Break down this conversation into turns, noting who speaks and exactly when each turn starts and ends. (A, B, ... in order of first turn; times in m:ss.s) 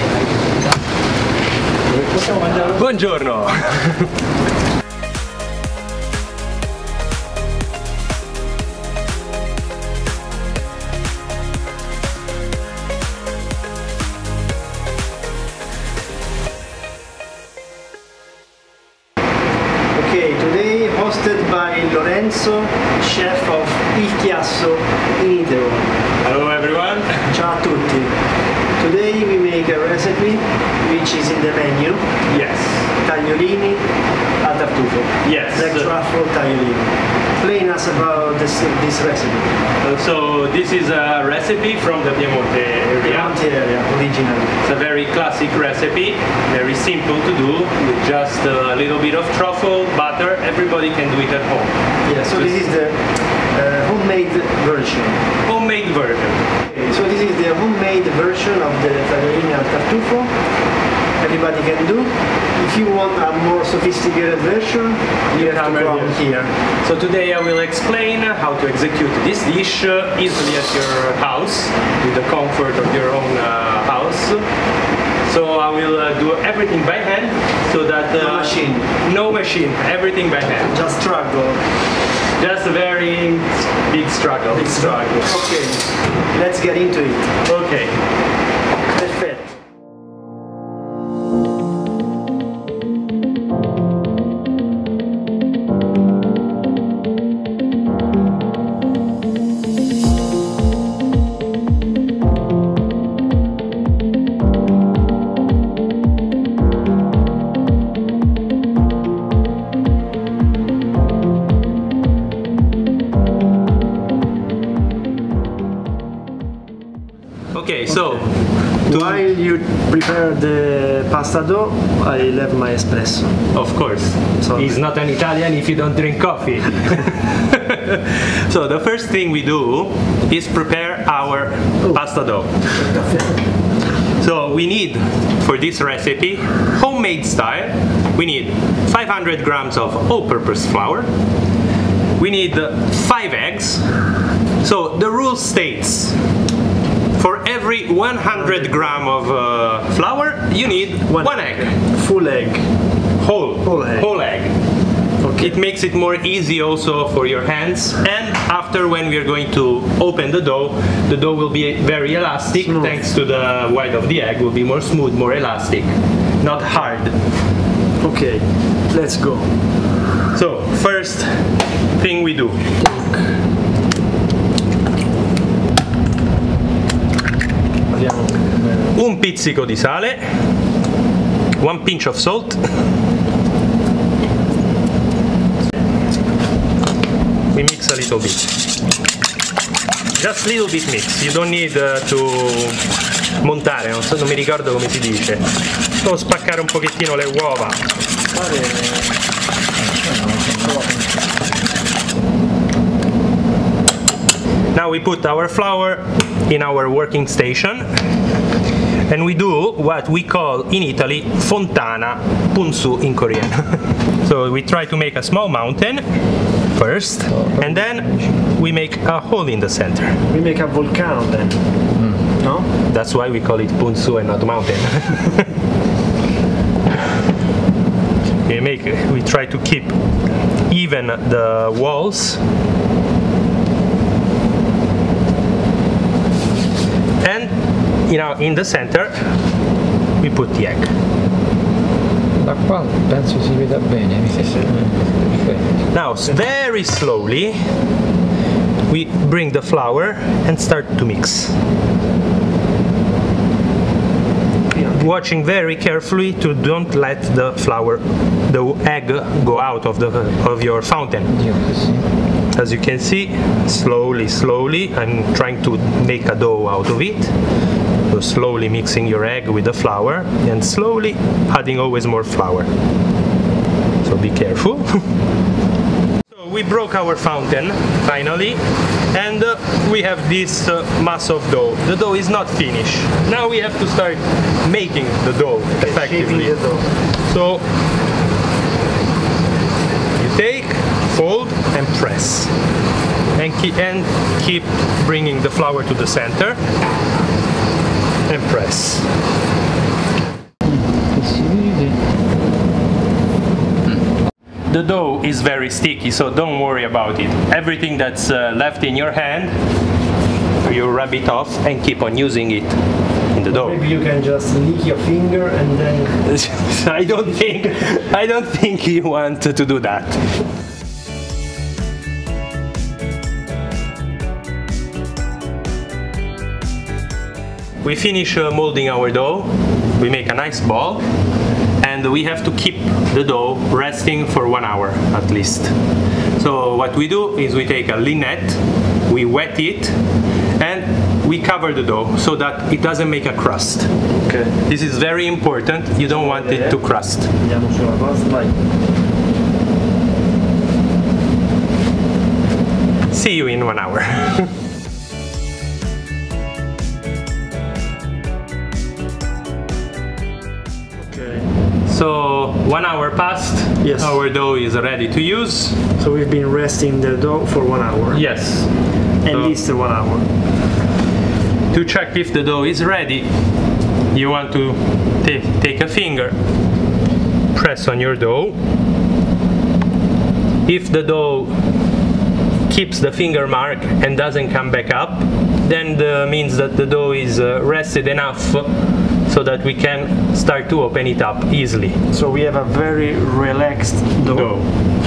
0:02.0-0:02.6 A
0:02.6-0:04.1 B
0:19.9-0:25.9 C
0:26.2-0:27.3 B
0:27.3-0:28.1 C
0:28.8-0:32.1 C
0:32.3-0:32.9 B
0:33.0-0:33.8 C
0:34.4-0:39.5 C
0:35.2-0:35.9 B
0:39.8-0:43.4 B
0:43.0-0:44.5 C
0:44.6-0:51.7 B
0:52.0-0:55.2 C
0:52.3-0:52.6 B
0:55.4-0:56.5 B
0:56.7-1:00.3 C
1:01.2-1:06.5 C
1:05.3-1:06.2 B
1:06.8-1:14.4 B
1:15.3-1:20.7 B
1:18.1-1:18.9 C
1:20.6-1:21.6 C
1:22.4-1:25.3 B
1:24.5-1:27.3 C
1:27.4-1:28.0 B
1:28.9-1:29.4 C
1:57.5-1:59.2 B
1:58.8-2:03.3 C
2:03.5-2:12.7 B
2:04.4-2:04.8 C
2:12.8-2:13.3 C
2:14.2-2:21.1 B
2:22.2-2:23.9 B
2:24.6-2:26.2 B
2:27.2-2:31.7 B
2:28.4-2:28.9 C
2:31.1-2:32.6 C
2:33.2-2:34.5 B
2:33.6-2:34.1 C
2:35.2-2:35.6 C
2:35.4-2:47.2 B
2:42.5-2:43.0 C
2:48.0-2:49.5 C
2:50.3-2:51.4 B
2:52.0-2:52.6 B
2:52.8-2:53.2 C
2:57.9-2:58.9 C
2:58.9-3:00.2 B
3:01.6-3:02.6 B
3:07.5-3:08.5 B
3:10.2-3:12.8 B
3:13.4-3:15.4 B
3:16.0-3:17.8 B
3:18.3-3:19.1 C
3:19.8-3:21.0 A
3:20.5-3:20.9 C
3:24.7-3:27.9 B
3:29.1-3:36.0 B
3:36.7-3:40.2 B
3:37.3-3:38.3 A
3:40.3-3:41.6 C
3:42.4-3:42.7 C
3:42.9-3:45.5 B
3:48.5-3:49.9 B
3:50.7-3:52.4 B
3:57.2-3:57.5 B
3:58.1-3:59.3 B
4:00.2-4:00.9 B
4:02.4-4:05.7 A
4:04.4-4:04.9 C
4:05.9-4:07.6 B
4:08.9-4:11.6 B
4:14.7-4:15.1 C
4:14.9-4:21.3 B
4:21.3-4:22.0 A
4:22.5-4:27.3 B
4:28.1-4:32.7 B
4:34.0-4:35.0 B
4:36.3-4:38.6 B
4:39.1-4:46.6 B
4:45.8-4:46.9 C
4:47.2-4:47.6 B
4:50.2-4:52.5 B
4:53.3-4:56.6 B
4:58.3-4:59.1 B
5:00.7-5:02.0 A
5:04.7-5:09.6 B
5:10.6-5:12.8 B
5:13.3-5:13.8 B
5:13.5-5:16.2 C
5:16.2-5:20.3 B
5:27.8-5:31.0 B
5:31.8-5:35.7 B
5:36.4-5:40.0 B
5:40.6-5:43.9 B
5:44.2-5:44.5 C
5:44.6-5:47.3 B
5:46.0-5:48.5 C
5:53.1-5:54.5 B
6:01.0-6:01.4 C
6:01.9-6:05.8 B
6:03.8-6:04.2 C
6:06.0-6:08.2 C
6:08.1-6:08.7 B
6:09.2-6:10.3 C
6:09.3-6:09.5 B
6:11.7-6:13.3 B
6:14.1-6:16.4 B
6:17.5-6:18.6 B
6:20.6-6:21.5 B
6:22.7-6:28.7 B
6:29.3-6:32.0 B
6:32.1-6:34.7 C
6:34.3-6:34.7 B